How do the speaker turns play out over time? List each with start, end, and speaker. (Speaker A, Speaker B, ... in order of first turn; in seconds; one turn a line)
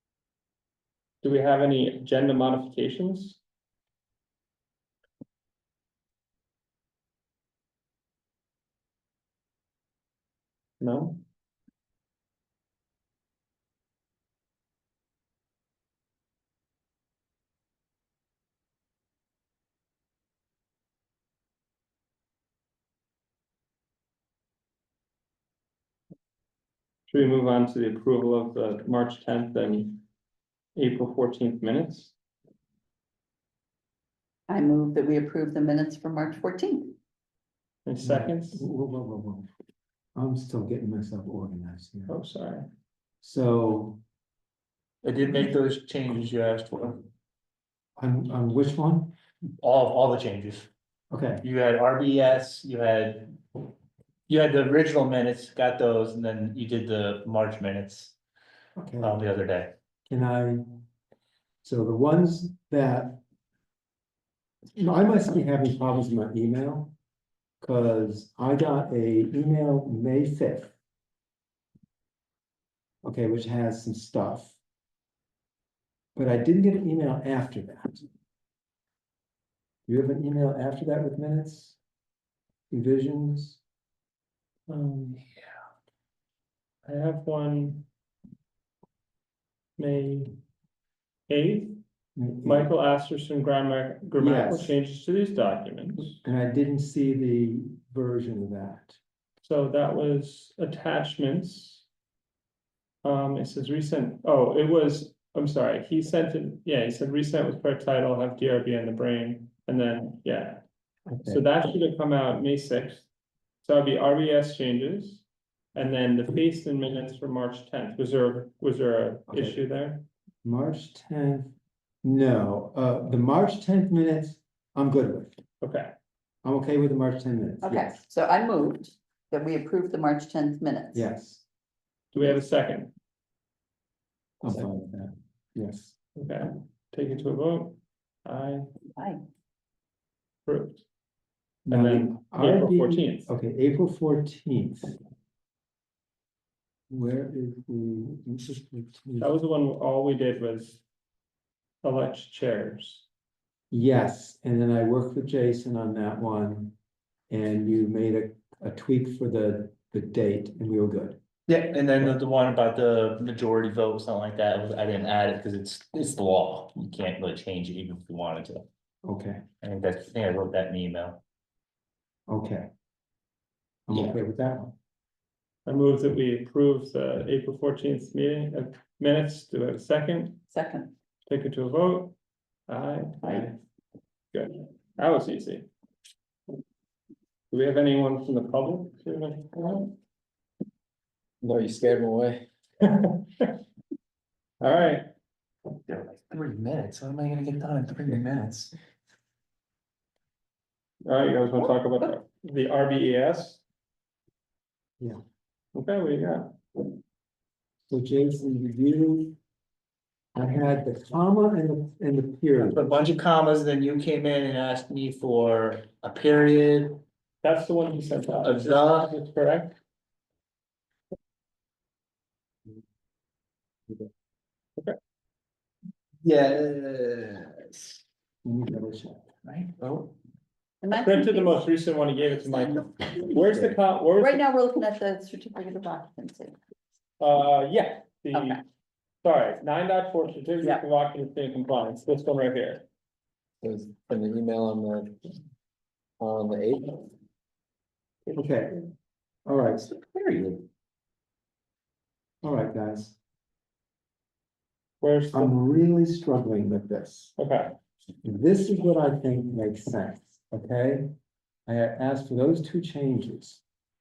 Speaker A: 1.2-3.4
Speaker A: 10.8-11.2
Speaker A: 27.1-30.0
Speaker A: 30.7-32.1
Speaker B: 34.5-36.9
Speaker A: 37.9-38.6
Speaker C: 38.0-39.5
Speaker C: 40.1-42.1
Speaker A: 42.1-42.7
Speaker C: 43.2-44.0
Speaker D: 45.0-47.0
Speaker C: 48.0-49.1
Speaker D: 49.6-50.7
Speaker C: 51.1-51.4
Speaker D: 51.4-53.4
Speaker D: 54.3-58.1
Speaker C: 58.8-59.2
Speaker D: 59.0-59.7
Speaker C: 60.1-60.8
Speaker C: 61.6-63.2
Speaker C: 64.7-66.9
Speaker C: 67.6-70.7
Speaker C: 73.0-74.6
Speaker C: 76.1-78.0
Speaker C: 79.9-81.8
Speaker C: 82.7-83.6
Speaker A: 84.7-85.2
Speaker A: 86.8-87.8
Speaker A: 89.8-90.4
Speaker A: 91.3-91.8
Speaker C: 92.2-92.7
Speaker A: 92.4-96.2
Speaker C: 94.2-94.8
Speaker C: 96.1-99.0
Speaker A: 99.4-101.8
Speaker A: 103.0-110.6
Speaker C: 111.1-111.4
Speaker A: 111.2-113.1
Speaker A: 113.6-115.2
Speaker A: 115.7-120.0
Speaker C: 119.3-119.6
Speaker C: 120.4-125.4
Speaker A: 125.6-125.9
Speaker C: 126.4-128.0
Speaker B: 127.6-131.1
Speaker C: 130.9-131.4
Speaker A: 132.1-132.9
Speaker C: 134.4-135.9
Speaker A: 136.2-138.7
Speaker B: 138.9-139.2
Speaker A: 140.4-140.8
Speaker C: 141.7-145.0
Speaker A: 141.7-143.3
Speaker C: 146.9-149.3
Speaker A: 149.2-150.8
Speaker A: 151.8-153.1
Speaker C: 153.7-156.7
Speaker C: 157.3-161.2
Speaker D: 161.5-168.7
Speaker C: 169.0-169.4
Speaker D: 169.6-171.2
Speaker C: 172.3-172.7
Speaker C: 173.9-174.7
Speaker A: 175.7-180.4
Speaker B: 180.5-180.9
Speaker A: 181.3-182.1
Speaker A: 182.7-183.6
Speaker A: 184.3-185.7
Speaker A: 187.5-189.9
Speaker E: 191.4-192.4
Speaker A: 192.8-193.5
Speaker A: 194.6-195.1
Speaker D: 195.9-198.7
Speaker A: 201.0-203.6
Speaker A: 205.7-206.5
Speaker C: 207.9-209.4
Speaker C: 210.3-212.8
Speaker D: 212.6-217.0
Speaker A: 217.4-219.8
Speaker D: 218.4-219.1
Speaker D: 226.2-228.0
Speaker C: 228.4-229.2
Speaker D: 229.4-230.1
Speaker B: 230.8-231.6
Speaker A: 230.9-234.4
Speaker B: 232.2-233.4
Speaker B: 234.2-236.5
Speaker A: 237.2-238.6
Speaker B: 238.3-238.6
Speaker A: 239.2-242.8
Speaker E: 243.6-245.2
Speaker E: 246.2-247.1
Speaker C: 248.3-248.8
Speaker C: 249.4-249.9
Speaker D: 249.9-250.6
Speaker C: 252.4-253.2
Speaker A: 255.0-255.6
Speaker C: 255.3-257.3
Speaker A: 257.4-257.7
Speaker C: 258.2-261.1
Speaker C: 261.6-263.6